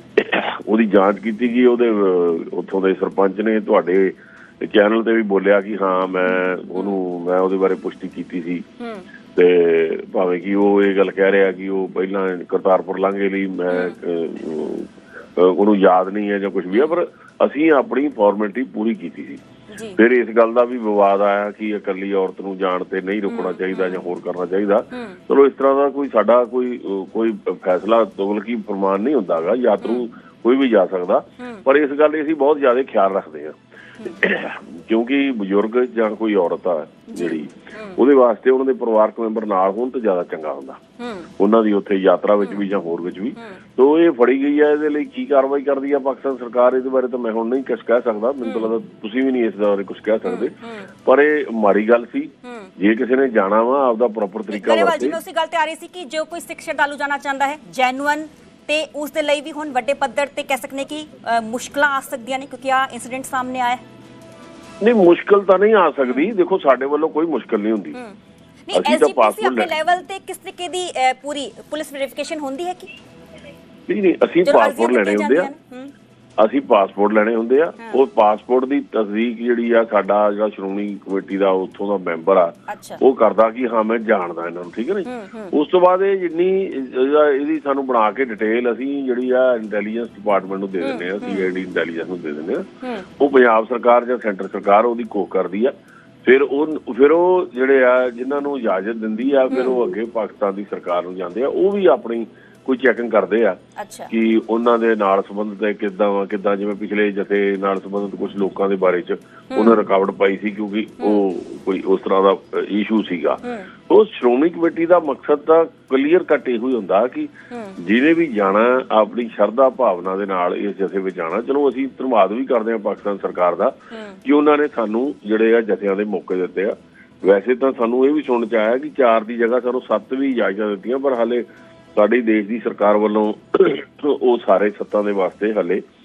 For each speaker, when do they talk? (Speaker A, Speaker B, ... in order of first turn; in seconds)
Speaker A: 0.2-8.6, 9.3-19.4, 20.0-33.6, 34.1-40.8, 41.4-55.2, 64.8-68.0, 68.7-69.7, 73.9-75.5, 76.4-92.7, 93.2-95.7, 96.2-103.6, 104.1-135.8
Speaker B: 8.8-9.1, 13.7-13.9, 19.7-20.0, 23.3-24.1, 24.9-25.2, 31.4-31.6, 37.1-38.0, 41.0-41.3, 42.4-42.6, 48.4-48.7, 50.2-50.9, 52.4-52.7, 54.5-63.8, 67.9-72.9, 74.5-75.9, 82.7-83.0, 85.0-85.5, 90.8-91.5, 99.5-99.8, 103.8-104.1, 109.5-109.8, 111.0-111.2, 113.4-113.7, 117.5-117.8, 123.9-124.2